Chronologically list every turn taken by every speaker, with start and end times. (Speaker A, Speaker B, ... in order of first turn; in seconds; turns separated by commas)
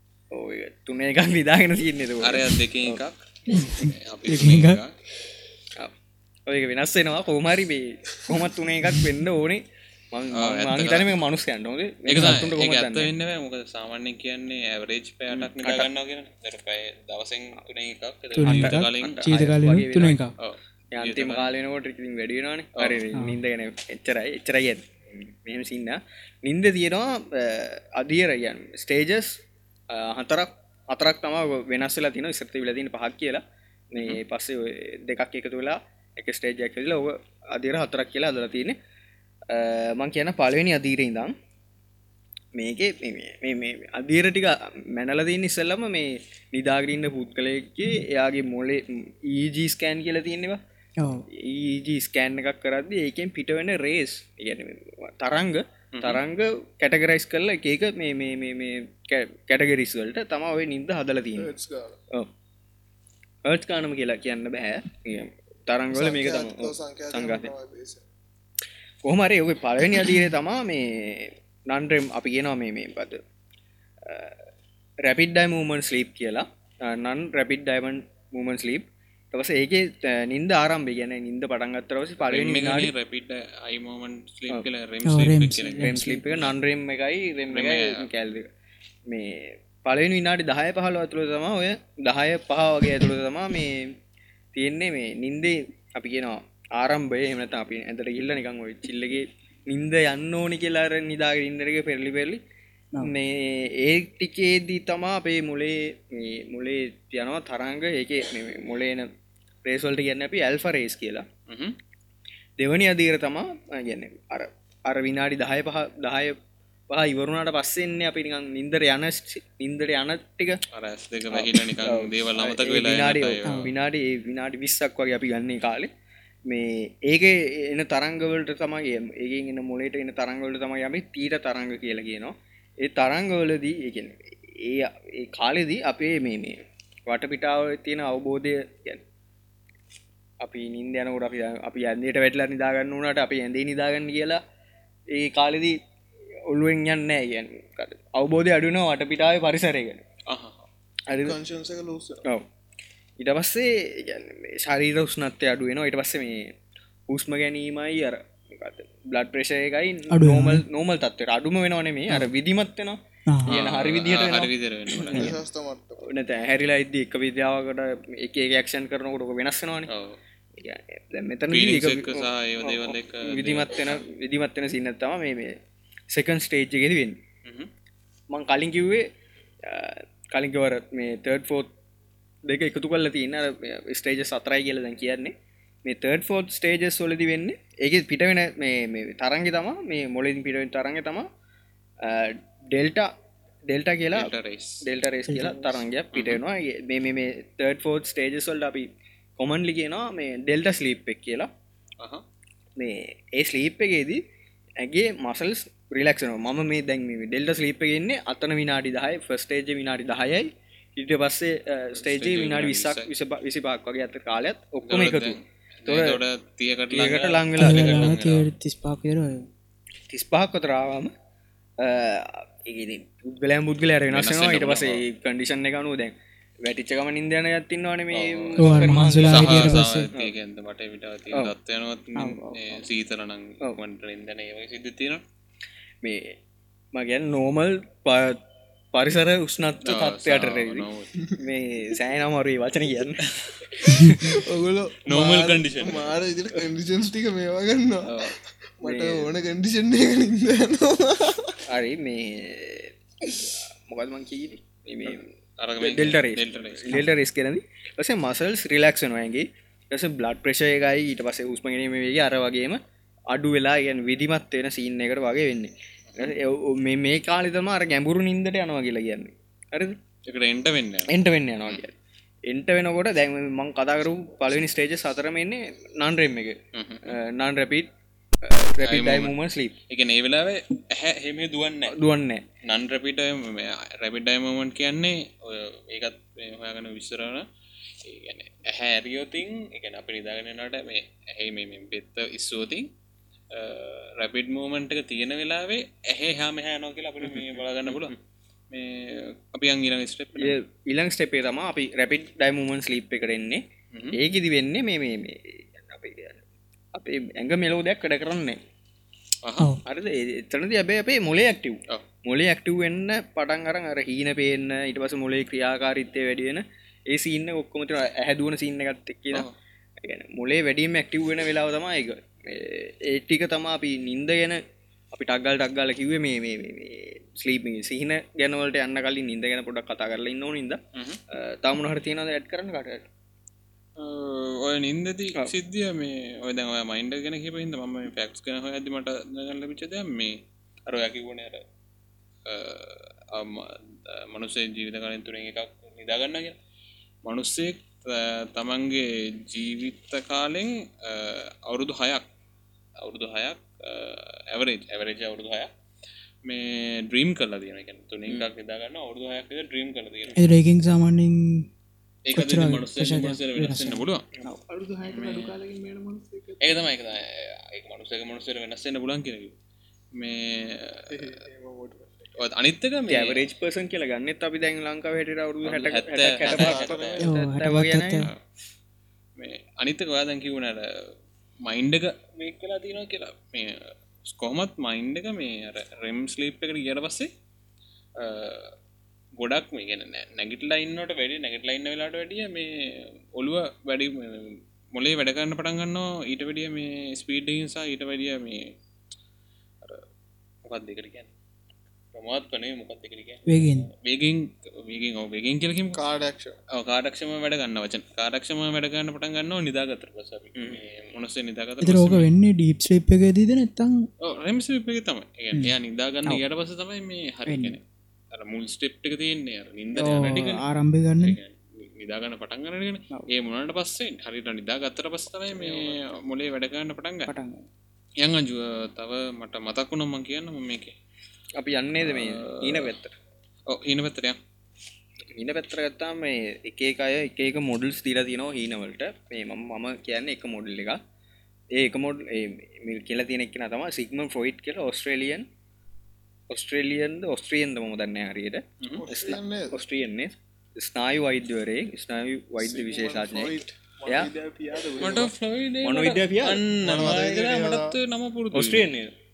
Speaker A: 0.3-3.0, Speaker B: 2.2-4.9, Speaker C: 3.5-4.8, Speaker A: 6.5-13.1, Speaker B: 10.3-11.2, Speaker B: 12.1-19.4, Speaker A: 15.3-15.9, Speaker C: 18.4-20.3, Speaker A: 18.4-20.2, Speaker B: 20.4-21.5, Speaker A: 20.9-38.8, Speaker B: 22.8-23.0, Speaker C: 23.1-23.4, Speaker A: 39.5-41.3, Speaker A: 42.5-50.6, Speaker C: 51.0-51.2, Speaker A: 51.3-61.5, Speaker B: 55.9-56.2, Speaker D: 61.4-62.0, Speaker A: 63.5-67.5, Speaker D: 65.9-68.0, Speaker A: 69.0-73.2, Speaker A: 74.0-74.4, Speaker A: 75.0-82.9, Speaker B: 82.2-86.5, Speaker C: 85.0-86.2, Speaker A: 85.7-88.5, Speaker B: 87.5-88.0, Speaker A: 89.1-93.9, Speaker A: 94.5-102.4, Speaker A: 103.0-109.1, Speaker A: 109.6-111.3, Speaker B: 111.5-111.8, Speaker A: 112.6-116.4, Speaker A: 116.9-120.6, Speaker B: 120.7-123.7, Speaker A: 121.3-125.9, Speaker C: 123.4-123.7, Speaker A: 126.5-139.0, Speaker A: 140.4-144.4, Speaker A: 145.1-145.8, Speaker A: 146.5-150.0, Speaker B: 150.3-150.7, Speaker A: 151.1-151.4, Speaker D: 151.2-152.2, Speaker A: 153.2-156.5, Speaker A: 157.1-165.3, Speaker C: 160.1-160.6, Speaker C: 163.3-163.6, Speaker B: 163.4-165.4, Speaker D: 165.1-166.0, Speaker A: 166.0-169.9, Speaker B: 169.9-170.2, Speaker A: 170.6-175.6, Speaker B: 171.5-174.0, Speaker A: 176.1-177.2, Speaker B: 177.4-177.7, Speaker A: 178.3-179.1, Speaker A: 179.6-181.7, Speaker A: 182.5-185.3, Speaker A: 185.8-191.3, Speaker A: 192.0-193.1, Speaker A: 193.7-201.5, Speaker B: 194.1-194.8, Speaker C: 195.3-195.7, Speaker B: 196.1-196.4, Speaker A: 202.8-204.2, Speaker A: 204.8-216.2, Speaker B: 212.0-213.1, Speaker B: 214.8-218.5, Speaker A: 216.9-218.2, Speaker C: 217.6-219.5, Speaker A: 220.1-221.1, Speaker A: 221.8-230.3, Speaker B: 224.1-225.0, Speaker B: 228.1-235.2, Speaker C: 228.6-230.1, Speaker C: 232.2-232.8, Speaker A: 236.0-236.4, Speaker A: 236.9-238.4, Speaker A: 238.9-244.4, Speaker B: 239.8-241.3, Speaker B: 243.2-244.0, Speaker D: 243.9-251.6, Speaker B: 245.1-246.2, Speaker B: 248.1-248.3, Speaker A: 248.8-249.2, Speaker A: 251.7-270.0, Speaker B: 255.1-257.1, Speaker B: 266.1-266.3, Speaker B: 270.3-271.1, Speaker A: 271.1-271.9, Speaker A: 272.5-277.9, Speaker B: 276.7-277.1, Speaker A: 278.4-279.7, Speaker B: 278.8-279.4, Speaker B: 279.9-281.9, Speaker A: 281.9-282.4, Speaker B: 282.6-287.5, Speaker B: 288.0-292.9, Speaker B: 293.5-298.1, Speaker A: 297.2-298.1, Speaker B: 298.7-300.6, Speaker A: 300.4-303.6, Speaker A: 304.1-306.4, Speaker A: 306.9-308.6, Speaker B: 309.4-309.7, Speaker A: 309.9-319.5, Speaker A: 320.0-324.6, Speaker A: 325.1-330.8, Speaker B: 330.9-331.2, Speaker A: 331.3-333.1, Speaker B: 334.0-341.6, Speaker B: 342.4-346.6, Speaker B: 347.2-352.2, Speaker B: 353.0-355.7, Speaker B: 356.4-360.4, Speaker C: 360.4-361.7, Speaker B: 362.2-364.2, Speaker C: 362.3-364.6, Speaker D: 364.6-366.8, Speaker B: 365.1-365.5, Speaker B: 366.6-369.5, Speaker B: 370.1-371.3, Speaker D: 371.1-372.3, Speaker B: 372.4-373.5, Speaker A: 373.1-378.3, Speaker B: 375.6-377.2, Speaker D: 376.4-377.4, Speaker C: 377.2-378.3, Speaker B: 379.4-387.3, Speaker B: 388.2-388.7, Speaker B: 389.4-398.7, Speaker B: 400.6-401.3, Speaker B: 402.1-406.0, Speaker C: 403.5-403.9, Speaker D: 405.9-406.6, Speaker B: 406.7-412.3, Speaker A: 410.6-410.8, Speaker C: 411.8-414.1, Speaker B: 414.2-417.8, Speaker C: 417.5-417.8, Speaker B: 418.3-420.6, Speaker C: 419.9-421.4, Speaker B: 421.2-427.3, Speaker A: 425.5-426.1, Speaker C: 427.3-427.6, Speaker B: 428.2-430.9, Speaker A: 431.6-433.1, Speaker B: 432.0-432.9, Speaker B: 433.7-434.4, Speaker A: 435.3-441.0, Speaker A: 441.8-445.5, Speaker A: 446.5-453.5, Speaker D: 449.0-449.8, Speaker D: 452.6-455.3, Speaker A: 454.1-454.3, Speaker B: 455.0-458.9, Speaker A: 455.8-456.6, Speaker D: 456.8-457.9, Speaker A: 458.5-459.1